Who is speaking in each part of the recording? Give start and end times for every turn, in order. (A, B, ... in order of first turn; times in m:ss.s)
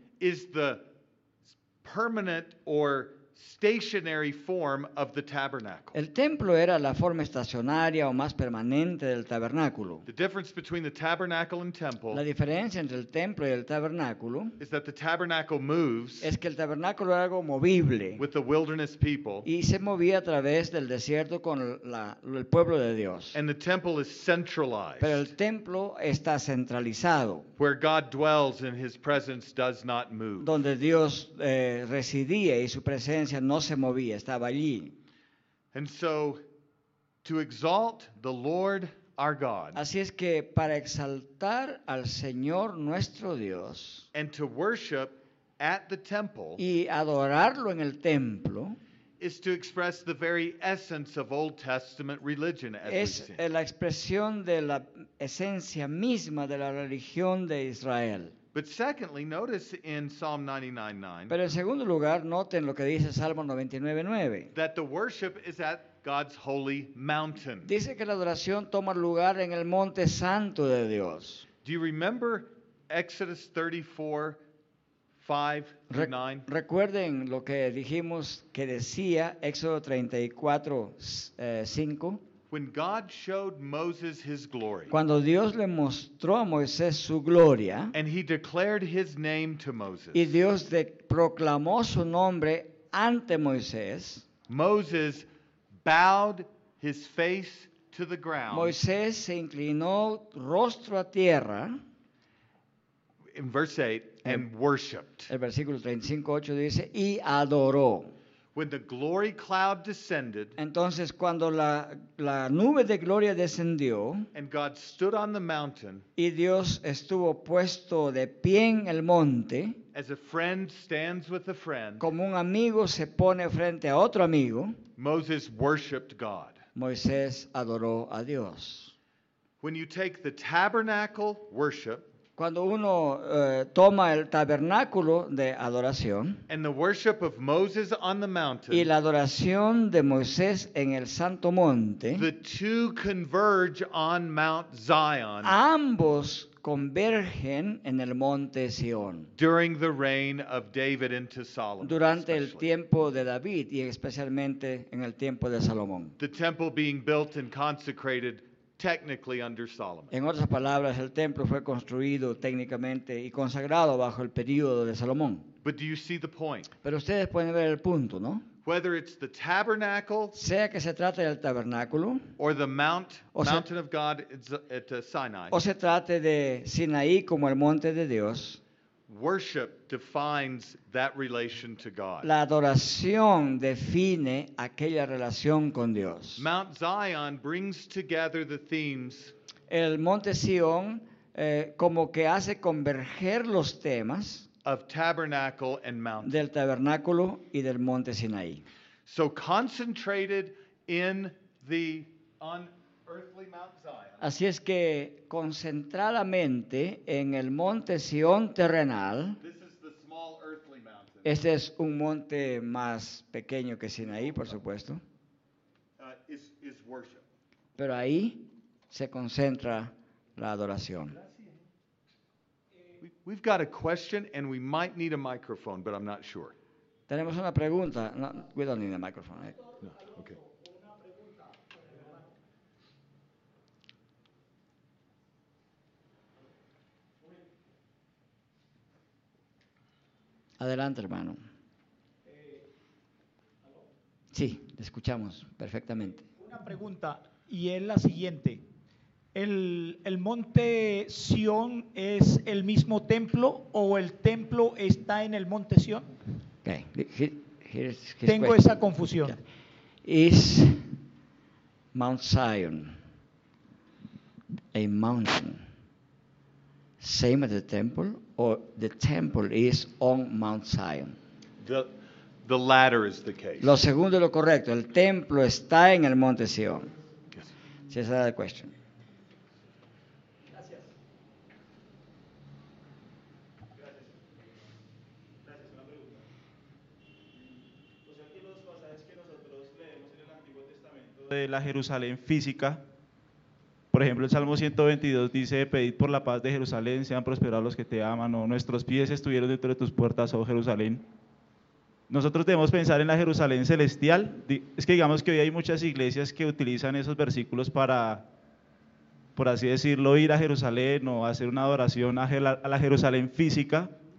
0:00.2-0:00.8 A
0:01.8-0:06.0 A
0:05.9-0:10.0 B
0:10.0-0:12.2 A
0:12.1-0:14.6 B
0:14.6-0:16.3 A
0:16.2-0:18.2 B
0:18.2-0:19.5 A
0:19.4-0:23.4 B
0:23.3-0:25.3 A
0:25.0-0:27.5 B
0:27.6-0:30.5 A
0:30.4-0:35.0 B
0:35.7-0:36.4 A
0:37.2-0:39.8 A
0:39.7-0:44.1 B
0:44.1-0:46.6 A
0:46.6-0:48.8 B
0:49.2-0:53.4 A
0:52.8-0:58.3 B
0:58.5-1:01.3 A
1:01.3-1:04.5 B
1:04.5-1:07.7 A
1:07.6-1:11.4 B
1:11.6-1:14.4 A
1:15.2-1:16.4 A
1:15.9-1:22.2 B
1:22.5-1:24.9 A
1:24.9-1:27.9 B
1:27.9-1:30.3 A
1:30.1-1:34.2 B
1:34.5-1:35.2 A
1:35.8-1:38.8 A
1:38.5-1:41.8 B
1:43.3-1:45.3 A
1:45.3-1:48.1 B
1:48.5-1:50.6 A
1:50.6-1:54.3 B
1:54.3-1:56.0 A
1:56.2-1:59.8 B
1:59.9-2:02.1 A
2:02.0-2:04.8 B
2:05.0-2:06.6 A
2:06.7-2:08.9 B
2:09.6-2:12.0 A
2:12.4-2:16.4 B
2:16.5-2:18.9 A
2:18.7-2:22.3 B
2:22.1-2:25.6 A
2:25.4-2:29.3 B
2:29.4-2:32.6 A
2:31.8-2:36.2 B
2:36.2-2:40.1 A
2:40.1-2:45.5 B
2:45.6-2:46.7 A
2:46.8-2:48.4 B
2:48.6-2:50.4 A
2:50.3-2:52.3 B
2:52.4-2:55.6 A
2:53.3-2:53.6 B
2:55.5-2:58.6 B
2:59.1-3:02.3 A
3:02.2-3:06.4 B
3:06.4-3:09.3 A
3:09.7-3:14.5 B
3:14.6-3:16.4 A
3:16.2-3:18.6 B
3:19.0-3:24.2 A
3:24.2-3:29.4 B
3:29.4-3:31.4 A
3:31.2-3:35.0 B
3:36.0-3:37.2 A
3:37.8-3:41.2 B
3:41.2-3:41.6 A
3:43.0-3:46.5 A
3:47.1-3:49.6 B
3:49.7-3:52.3 C
3:49.8-3:50.4 A
4:00.6-4:01.4 B
4:02.3-4:02.6 C
4:04.3-4:06.2 B
4:06.4-4:08.6 C
4:09.3-4:16.1 C
4:16.6-4:18.7 B
4:18.2-4:19.4 C
4:20.0-4:21.0 B
4:21.9-4:23.0 B
4:24.7-4:25.6 B
4:27.0-4:31.2 B
4:31.6-4:31.9 A
4:32.4-4:33.8 A
4:33.6-4:36.9 B
4:37.9-4:38.7 B
4:45.4-4:46.2 D
4:48.0-4:52.8 D
4:53.9-5:01.0 D
5:02.1-5:08.2 D
5:09.4-5:13.9 D